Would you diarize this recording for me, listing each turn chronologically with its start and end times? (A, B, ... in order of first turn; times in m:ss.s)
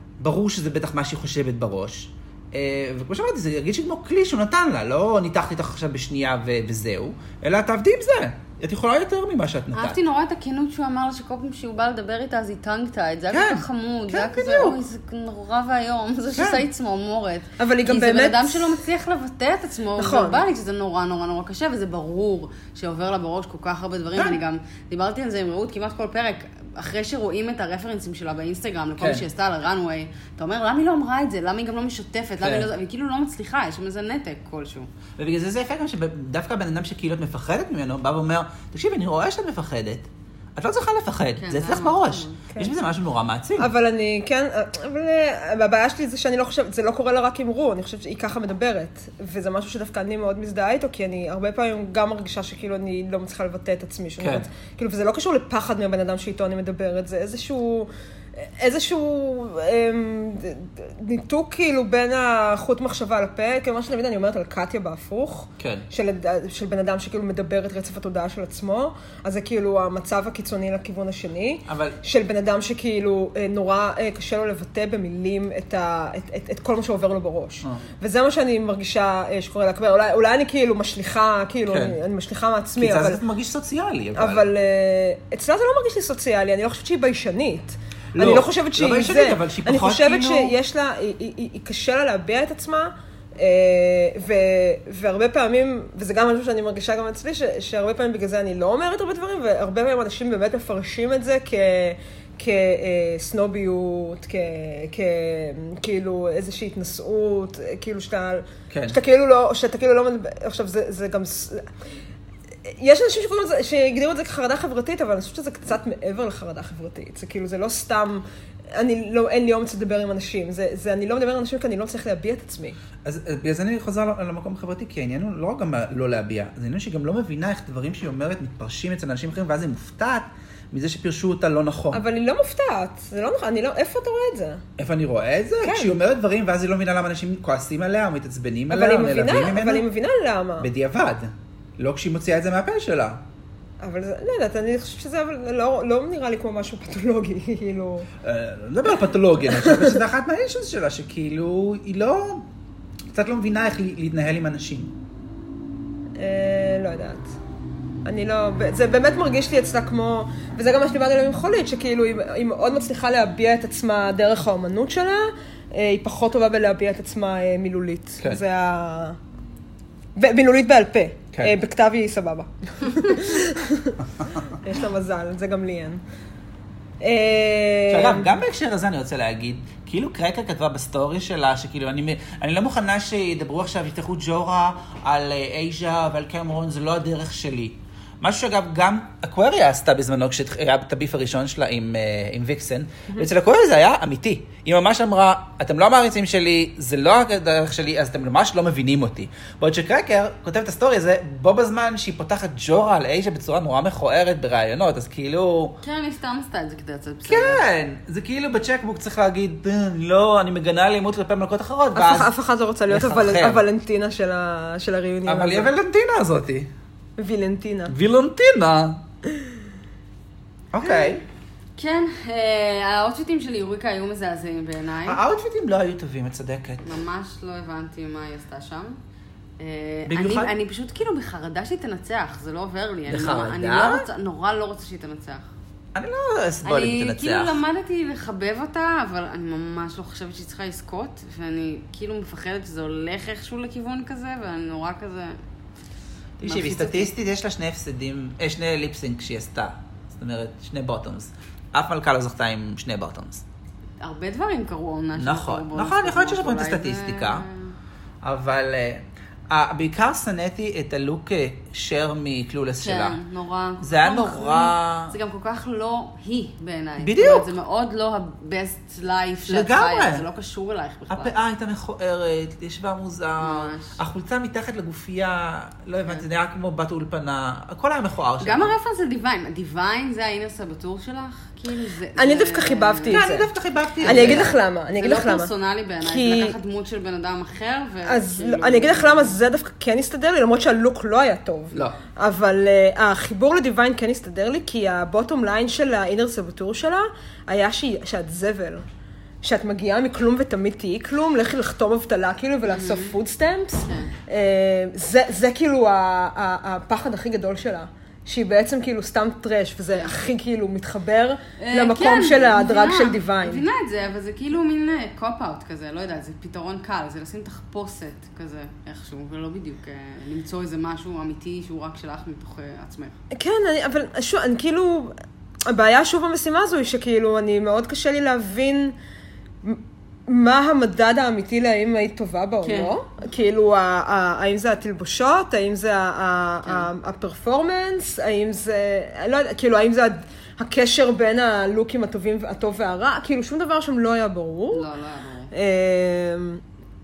0:00.2-0:10.0 A
0:09.7-0:34.9 B
0:13.3-0:14.8 A
0:16.4-0:16.6 A
0:17.6-0:18.8 C
0:20.0-0:20.4 C
0:29.0-0:29.2 A
0:32.4-0:32.7 A
0:35.2-0:43.7 A
0:41.4-0:42.4 B
0:43.6-1:23.2 C
0:54.2-0:54.5 A
1:05.6-1:05.8 A
1:11.7-1:12.0 A
1:21.7-1:22.0 A
1:22.8-1:24.4 A
1:24.1-1:51.7 C
1:28.1-1:30.5 A
1:48.7-1:49.0 A
1:52.6-2:02.8 C
2:03.0-2:12.0 A
2:11.9-2:14.6 C
2:14.8-2:19.9 A
2:15.6-2:15.9 C
2:18.7-2:20.7 C
2:20.6-2:23.2 A
2:23.8-2:28.1 C
2:28.2-2:32.5 A
2:29.5-2:30.0 C
2:33.1-2:34.9 A
2:36.2-2:37.3 C
2:38.0-2:49.2 C
2:50.2-2:56.0 C
2:57.0-2:58.3 C
2:57.9-3:25.8 A
3:25.8-3:27.6 B
3:27.3-3:32.3 A
3:31.9-3:35.7 C
3:32.9-3:33.6 A
3:35.2-3:36.7 A
3:37.2-3:37.9 C
3:37.9-3:39.0 A
3:40.7-3:41.2 A
3:41.8-3:45.2 B
3:45.0-3:46.8 A
3:46.8-3:49.0 B
3:49.6-3:55.5 B
3:50.1-3:50.5 A
3:53.1-3:54.1 A
3:55.9-3:57.6 A
3:56.6-4:05.3 B
4:06.4-4:13.4 A
4:06.4-4:07.1 B
4:14.0-4:17.7 B
4:15.2-4:17.4 A
4:18.2-4:23.2 A
4:22.8-4:31.3 B
4:23.8-4:25.2 A
4:27.0-4:27.5 A
4:29.5-4:30.2 A
4:31.1-4:38.7 A
4:33.4-4:34.0 B
4:38.4-4:43.2 B
4:42.2-4:43.5 C
4:43.1-4:44.5 A
4:44.0-4:49.4 B
4:44.0-4:45.5 C
4:46.0-4:46.5 C
4:48.0-4:58.8 C
4:59.4-5:13.6 C
5:02.7-5:03.1 B
5:11.6-5:23.2 B
5:23.3-5:25.1 C
5:25.7-5:28.9 C
5:29.6-5:44.8 C
5:32.6-5:33.0 B
5:44.7-5:45.5 B
5:45.5-5:46.6 C